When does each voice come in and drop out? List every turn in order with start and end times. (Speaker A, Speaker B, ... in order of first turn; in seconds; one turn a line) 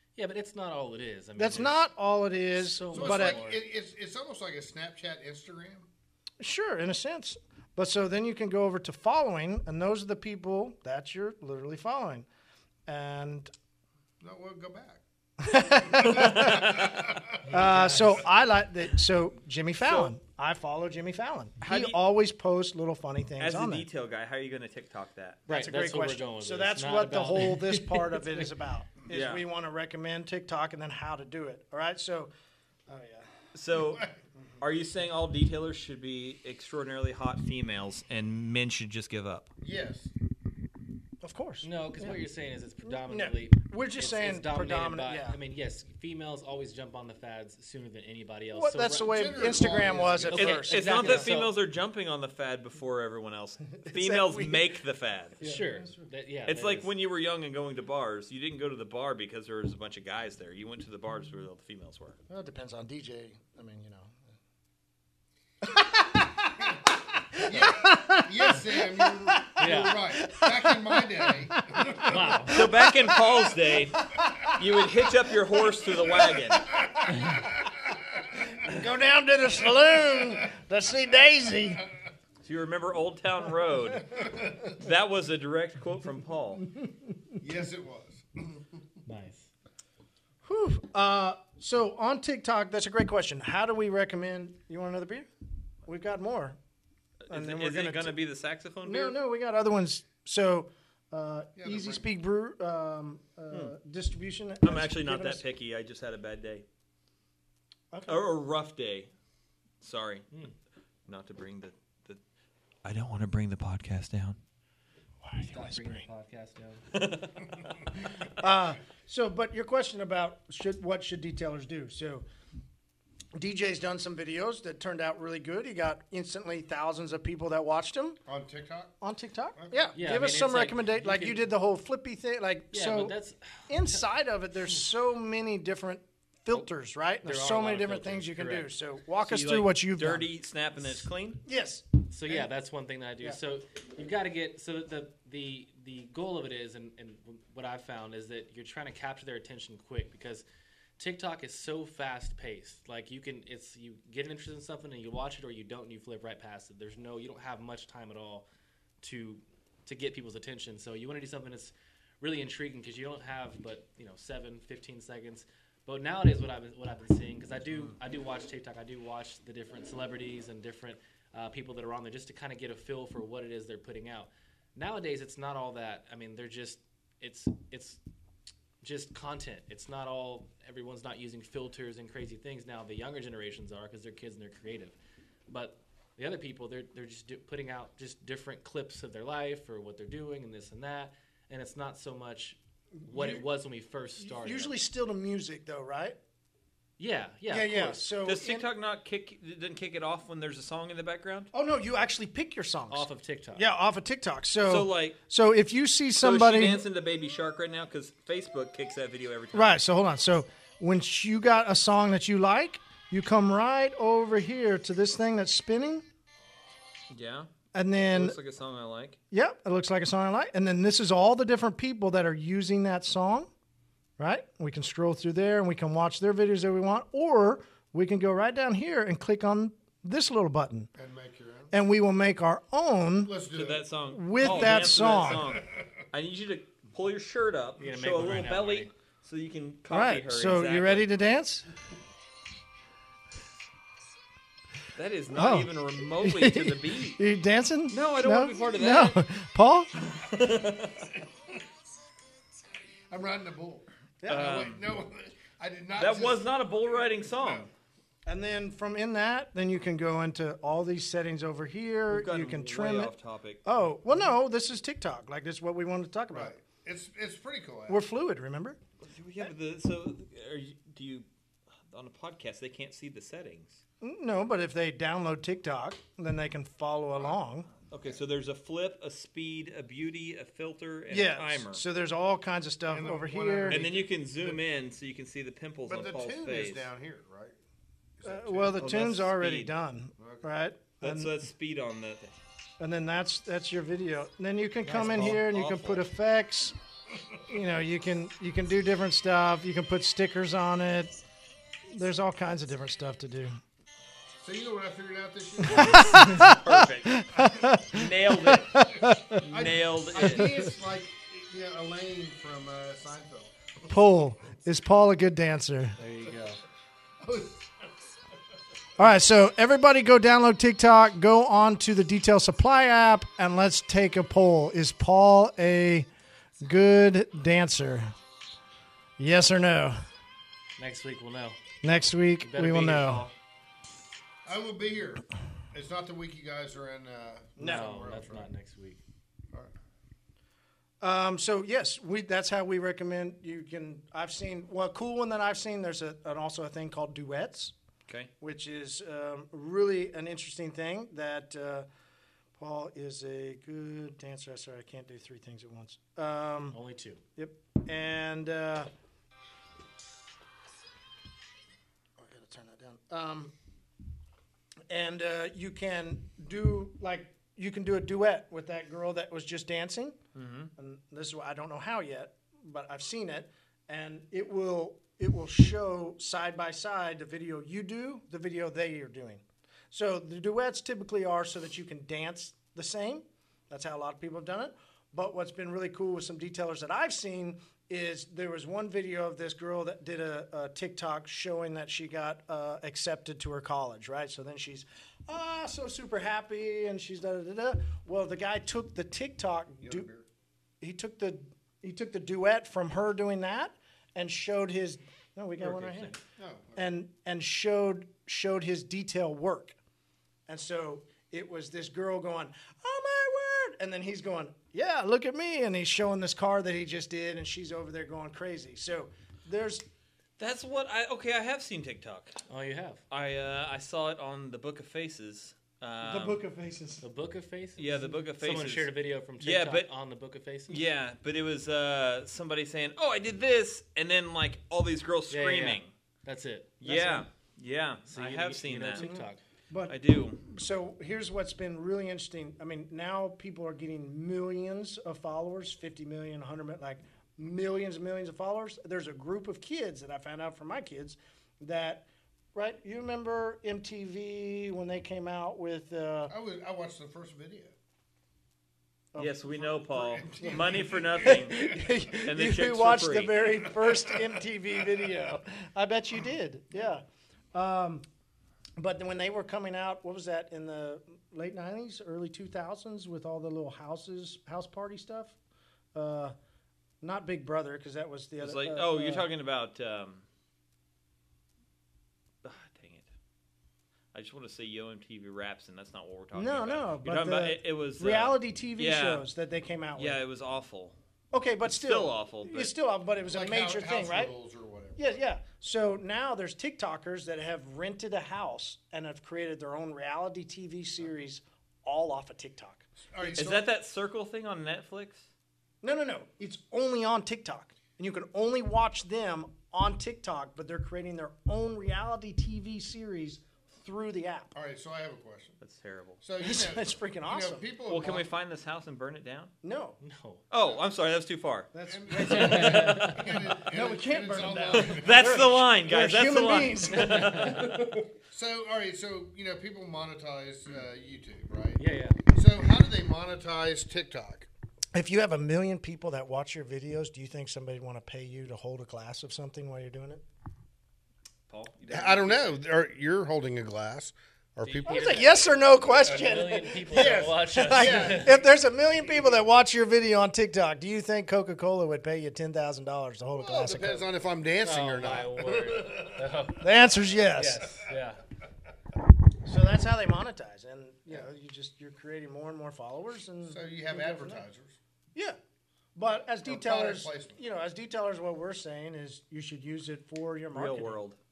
Speaker A: 0.2-1.8
Speaker B: 1.4-3.4
Speaker A: 2.6-3.6
Speaker C: 2.9-5.9
Speaker B: 6.4-12.2
Speaker B: 12.8-13.5
Speaker C: 14.2-15.0
Speaker B: 15.4-16.9
Speaker D: 16.0-16.6
Speaker C: 16.0-17.3
Speaker A: 17.4-18.2
Speaker B: 17.4-23.9
Speaker D: 21.6-22.0
Speaker D: 23.4-25.4
Speaker B: 25.4-32.3
Speaker A: 25.5-28.5
Speaker D: 29.1-29.5
Speaker B: 32.9-33.3
Speaker D: 33.5-39.5
Speaker C: 39.6-40.1
Speaker B: 41.2-42.2
Speaker A: 41.6-51.5
Speaker B: 42.8-45.4
Speaker B: 48.5-51.4
Speaker C: 49.1-50.5
Speaker D: 50.3-55.4
Speaker B: 53.8-54.8
Speaker B: 55.4-55.9
Speaker A: 55.4-56.9
Speaker D: 56.5-62.2
Speaker B: 62.3-64.2
Speaker B: 65.6-66.8
Speaker B: 67.3-77.6
Speaker C: 67.4-72.3
Speaker A: 69.6-70.0
Speaker A: 72.0-72.6
Speaker D: 72.5-74.0
Speaker D: 74.6-76.7
Speaker B: 78.3-81.9
Speaker D: 82.4-86.7
Speaker C: 87.4-88.7
Speaker A: 89.0-89.5
Speaker B: 90.4-95.3
Speaker B: 95.8-96.6
Speaker D: 97.3-99.2
Speaker B: 97.3-98.2
Speaker B: 98.8-105.4
Speaker C: 101.5-102.1
Speaker D: 103.5-103.7
Speaker D: 104.6-106.6
Speaker B: 107.9-108.3
Speaker D: 108.1-109.1
Speaker D: 109.8-110.3
Speaker D: 111.1-112.2
Speaker D: 112.8-114.4
Speaker B: 115.2-116.0
Speaker A: 115.5-116.9
Speaker D: 116.9-117.7
Speaker B: 118.2-122.2
Speaker B: 123.3-128.2
Speaker C: 128.2-128.9
Speaker B: 129.0-133.1
Speaker C: 129.6-129.9
Speaker A: 129.9-131.4
Speaker A: 132.7-134.1
Speaker B: 133.7-140.3
Speaker A: 137.2-138.7
Speaker D: 139.2-141.4
Speaker B: 140.8-142.5
Speaker A: 142.1-150.4
Speaker A: 151.0-158.4
Speaker A: 159.0-178.0
Speaker A: 178.8-184.9
Speaker A: 185.5-194.7
Speaker B: 193.0-193.4
Speaker B: 194.2-196.2
Speaker A: 197.0-198.0
Speaker B: 197.5-198.7
Speaker D: 198.2-201.5
Speaker B: 201.5-206.8
Speaker A: 202.9-203.6
Speaker D: 204.6-205.2
Speaker D: 206.2-209.8
Speaker B: 209.5-216.0
Speaker D: 217.1-217.5
Speaker B: 217.7-218.4
Speaker D: 218.1-219.2
Speaker B: 219.3-223.5
Speaker B: 224.2-230.9
Speaker C: 231.0-231.7
Speaker B: 231.7-233.4
Speaker C: 233.2-233.8
Speaker D: 233.5-241.1
Speaker B: 234.1-235.5
Speaker C: 234.5-235.6
Speaker A: 237.8-238.9
Speaker B: 239.9-241.7
Speaker D: 244.9-247.2
Speaker B: 245.3-249.9
Speaker D: 247.9-249.2
Speaker D: 250.1-251.1
Speaker C: 253.1-256.5
Speaker B: 254.2-254.7
Speaker D: 254.3-254.8
Speaker D: 256.0-257.7
Speaker C: 257.4-257.7
Speaker B: 258.2-266.5
Speaker D: 262.1-263.6
Speaker C: 266.3-268.0
Speaker B: 267.9-268.8
Speaker D: 269.0-271.3
Speaker D: 271.9-273.8
Speaker B: 274.0-277.7
Speaker D: 277.8-281.8
Speaker B: 281.1-283.8
Speaker C: 282.9-284.6
Speaker D: 283.7-286.9
Speaker C: 285.9-287.6
Speaker C: 288.2-289.0
Speaker B: 288.2-291.4
Speaker D: 288.8-289.7
Speaker C: 290.2-290.5
Speaker D: 291.0-292.4
Speaker B: 292.8-296.8
Speaker D: 294.8-296.1
Speaker B: 297.5-301.1
Speaker B: 301.9-303.6
Speaker C: 304.4-306.3
Speaker B: 305.6-309.5
Speaker D: 306.2-307.2
Speaker D: 307.9-308.9
Speaker D: 309.4-310.5
Speaker C: 309.5-313.6
Speaker B: 310.1-310.7
Speaker B: 313.9-316.0
Speaker A: 316.0-316.6
Speaker C: 317.2-317.9
Speaker B: 319.0-326.1
Speaker B: 326.6-328.1
Speaker B: 329.2-330.0
Speaker A: 330.8-331.6
Speaker B: 331.8-333.3
Speaker A: 332.4-333.3
Speaker C: 334.4-338.5
Speaker A: 337.6-339.0
Speaker B: 337.6-337.9
Speaker B: 341.0-347.7
Speaker B: 348.4-351.9
Speaker B: 352.6-356.8
Speaker A: 356.7-357.2
Speaker B: 357.4-358.9
Speaker B: 362.2-363.5
Speaker B: 364.9-370.2
Speaker D: 370.3-370.7
Speaker B: 370.8-400.1
Speaker C: 399.8-400.3
Speaker B: 400.8-406.2
Speaker A: 405.6-406.2
Speaker C: 406.4-406.9
Speaker B: 406.8-409.8
Speaker B: 410.5-419.8
Speaker D: 420.4-422.3
Speaker A: 422.5-423.0
Speaker D: 423.1-426.4
Speaker B: 426.0-427.0
Speaker A: 427.0-430.9
Speaker D: 427.8-429.9
Speaker D: 430.7-435.9
Speaker A: 435.3-436.7
Speaker D: 436.8-439.1
Speaker B: 436.8-437.2
Speaker A: 438.1-439.4
Speaker B: 438.9-456.3
Speaker D: 439.9-440.4
Speaker C: 456.3-457.7
Speaker B: 459.1-468.1
Speaker D: 459.2-461.7
Speaker C: 459.9-461.6
Speaker D: 462.2-463.5
Speaker B: 468.8-475.4
Speaker B: 475.9-476.3
Speaker B: 477.0-479.3
Speaker D: 478.4-480.2
Speaker D: 482.4-483.1
Speaker D: 484.1-489.3
Speaker B: 486.3-490.2
Speaker D: 489.9-490.9
Speaker B: 491.3-494.3
Speaker D: 491.7-492.7
Speaker C: 493.2-495.2
Speaker B: 495.0-503.5
Speaker C: 503.0-503.7
Speaker D: 503.4-505.3
Speaker B: 505.8-514.5
Speaker C: 514.5-515.6
Speaker D: 515.6-516.2
Speaker C: 516.2-518.3
Speaker B: 516.4-517.7
Speaker D: 517.9-519.5
Speaker B: 519.6-520.0
Speaker A: 520.0-520.4
Speaker D: 520.5-521.7
Speaker B: 521.7-528.0
Speaker C: 521.9-525.4
Speaker A: 522.3-523.4
Speaker D: 524.7-527.9
Speaker A: 527.0-527.6
Speaker C: 528.3-534.5
Speaker A: 531.8-532.2
Speaker B: 534.9-540.2
Speaker D: 541.5-542.6
Speaker C: 541.9-545.3
Speaker D: 544.6-545.3
Speaker A: 544.9-548.4
Speaker B: 544.9-554.1
Speaker C: 546.9-548.4
Speaker C: 553.4-556.3
Speaker A: 554.6-556.7
Speaker B: 556.6-557.8
Speaker A: 557.3-558.2
Speaker B: 559.4-564.4
Speaker C: 563.4-564.8
Speaker B: 565.9-571.0
Speaker C: 566.4-567.4
Speaker D: 570.5-571.2